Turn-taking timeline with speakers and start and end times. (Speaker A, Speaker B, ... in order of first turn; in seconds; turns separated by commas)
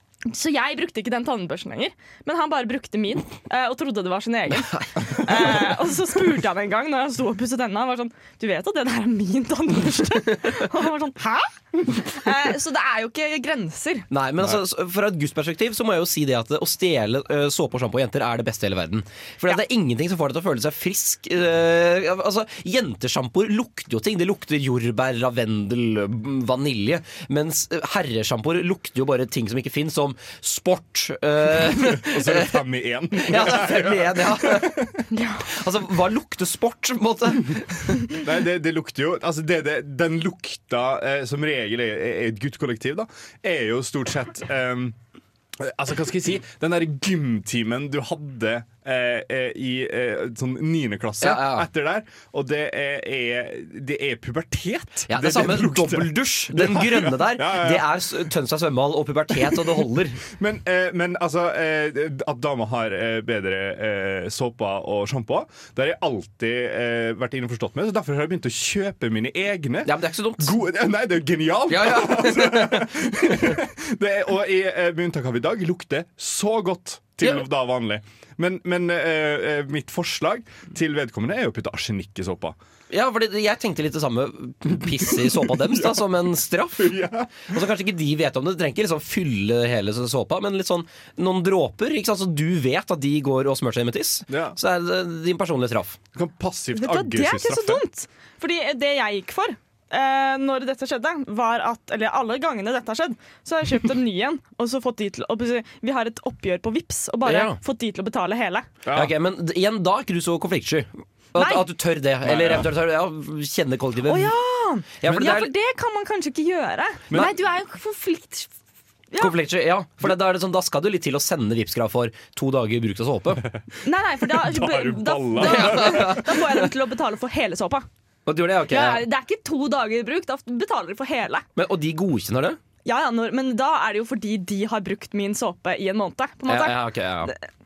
Speaker A: 0.3-14.1, Speaker B: 14.1-32.6, Speaker C: 31.8-35.0, Speaker B: 33.2-34.9, Speaker A: 35.1-35.4, Speaker B: 35.4-38.1, Speaker C: 38.2-45.0, Speaker C: 45.6-58.1, Speaker B: 51.2-51.7, Speaker B: 55.1-60.2, Speaker C: 59.4-82.6, Speaker B: 69.8-70.5, Speaker B: 71.7-72.9, Speaker B: 82.9-96.0, Speaker C: 85.7-86.0, Speaker C: 86.8-87.5, Speaker C: 94.3-94.6, Speaker C: 96.1-97.8, Speaker A: 96.7-108.7, Speaker B: 107.2-107.6, Speaker C: 108.8-109.1, Speaker B: 108.9-114.3, Speaker A: 111.3-111.6, Speaker C: 112.2-112.7, Speaker A: 114.0-118.5, Speaker B: 115.0-115.5, Speaker B: 119.2-123.5, Speaker A: 123.8-127.9, Speaker C: 124.2-126.4, Speaker B: 125.5-126.2, Speaker B: 128.2-129.0, Speaker A: 128.7-131.4, Speaker B: 131.6-132.6, Speaker A: 132.8-137.3, Speaker B: 136.5-137.3